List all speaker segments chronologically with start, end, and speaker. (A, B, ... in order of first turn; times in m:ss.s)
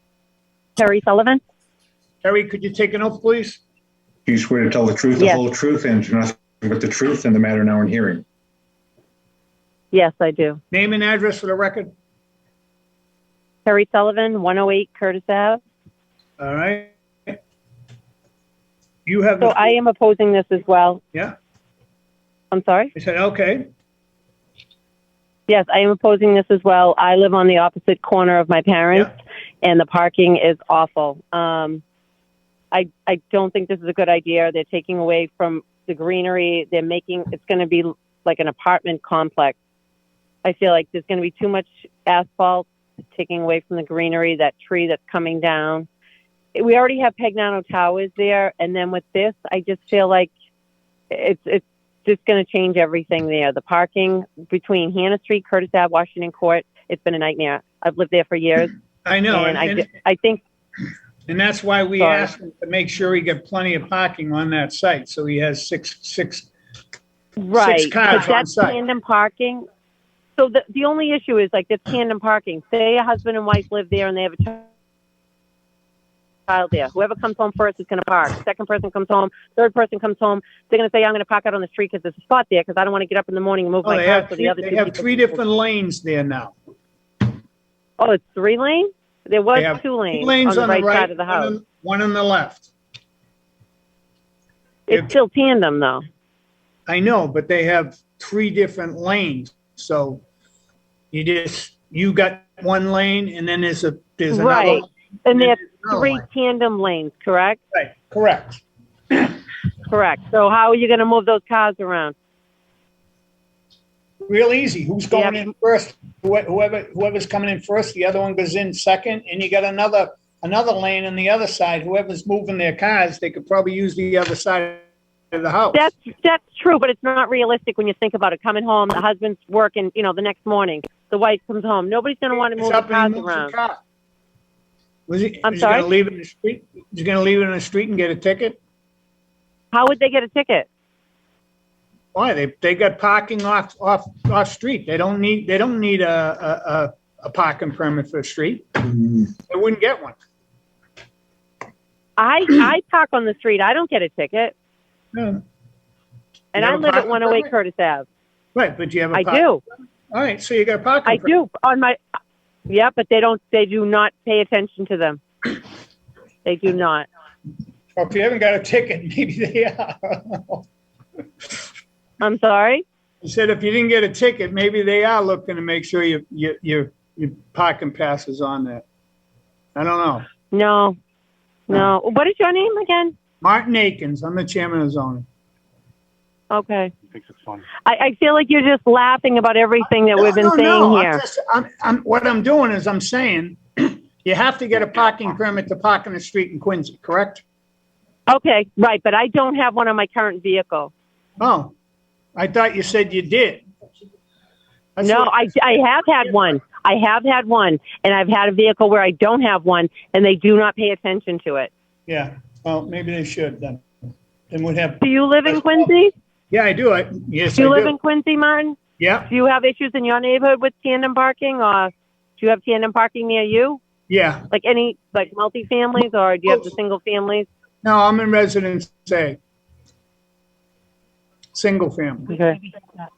0:00.8-0:01.4 A
0:02.2-0:03.6 B
0:04.2-0:08.2 C
0:09.9-0:10.6 A
0:10.7-0:11.9 B
0:13.6-0:15.6 A
0:16.4-0:17.4 B
0:19.0-0:19.7 B
0:19.4-0:21.0 A
0:22.5-0:22.9 A
0:22.9-0:23.6 B
0:25.5-0:31.8 A
0:32.7-0:39.6 A
0:40.4-0:45.9 A
0:46.5-0:50.3 A
0:51.1-0:58.7 A
0:59.0-0:59.9 B
0:59.3-1:00.4 A
1:01.3-1:06.5 B
1:02.0-1:02.3 A
1:07.4-1:09.6 A
1:07.5-1:08.8 B
1:10.4-1:14.6 A
1:16.5-1:25.4 A
1:23.8-1:26.5 B
1:28.0-1:31.5 A
1:29.5-1:32.7 B
1:34.9-1:36.0 A
1:34.9-1:35.1 B
1:36.9-1:40.2 B
1:41.1-1:46.2 B
1:44.3-1:47.6 A
1:47.7-1:48.6 B
1:49.9-1:52.1 A
1:54.2-2:05.9 B
1:55.1-1:55.4 A
2:05.7-2:13.5 A
2:12.6-2:13.8 B
2:15.1-2:18.6 B
2:15.4-2:15.9 A
2:19.7-2:20.7 A
2:22.1-2:30.2 B
2:32.2-2:34.5 A
2:35.1-2:35.4 B
2:36.5-2:38.0 A
2:36.6-2:37.5 B
2:38.5-2:39.5 B
2:39.1-2:39.6 A
2:40.1-2:41.3 B
2:41.0-2:42.0 A
2:42.7-2:45.5 A
2:46.4-2:47.0 A
2:48.0-2:50.6 B
2:52.2-2:52.8 A
2:53.2-2:58.8 B
2:59.8-3:00.2 B
3:00.5-3:01.0 A
3:01.7-3:03.1 A
3:03.4-3:05.2 B
3:06.5-3:06.9 A
3:07.1-3:07.6 C
3:07.8-3:11.2 A
3:10.1-3:17.4 B
3:18.3-3:20.9 A
3:21.4-3:21.7 B
3:22.4-3:23.6 B
3:25.0-3:25.6 B
3:25.0-3:31.7 A
3:32.1-3:33.8 B
3:34.5-3:35.9 B
3:35.0-3:36.1 A
3:36.5-3:37.9 B
3:37.6-3:43.8 A
3:39.0-3:39.3 B
3:44.1-3:44.4 B
3:44.5-3:47.5 A
3:47.8-3:49.4 B
3:51.5-3:52.3 B
3:52.3-3:52.6 A